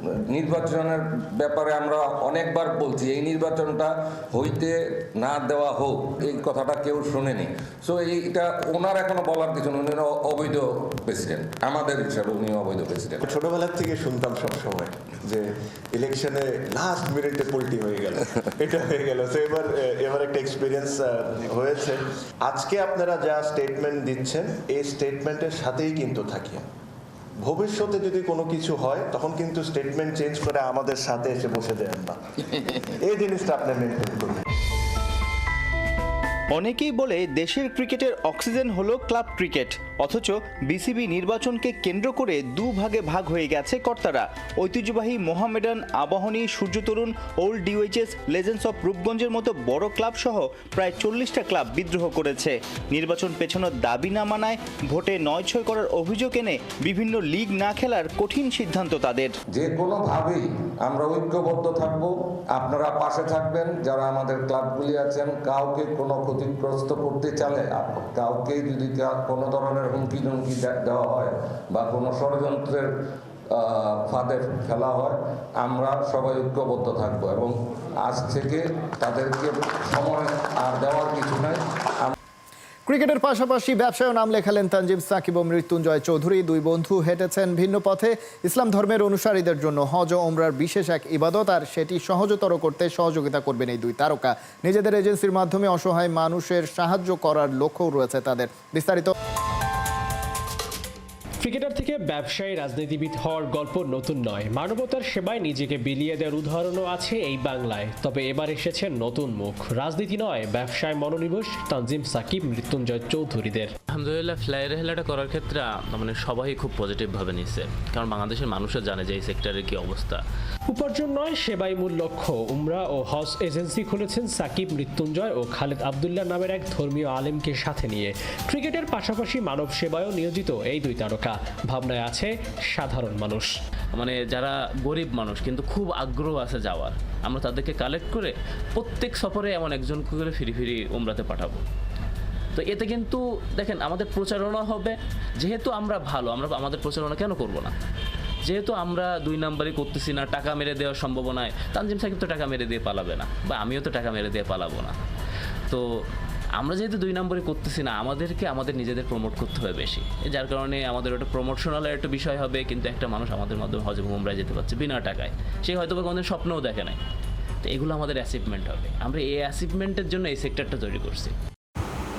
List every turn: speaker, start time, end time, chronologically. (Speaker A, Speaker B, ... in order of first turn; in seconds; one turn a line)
Speaker A: 0.3-13.2
Speaker B: 13.2-26.6
Speaker B: 27.4-34.4
Speaker C: 36.5-59.3
Speaker A: 59.5-72.9
Speaker A: 73.5-82.2
Speaker D: 82.9-99.1
Speaker E: 101.4-113.7
Speaker F: 113.9-120.2
Speaker E: 120.7-133.5
Speaker F: 133.9-141.6
Speaker F: 142.6-147.7
Speaker F: 148.5-154.9
Speaker F: 156.6-167.0
Speaker F: 167.6-171.3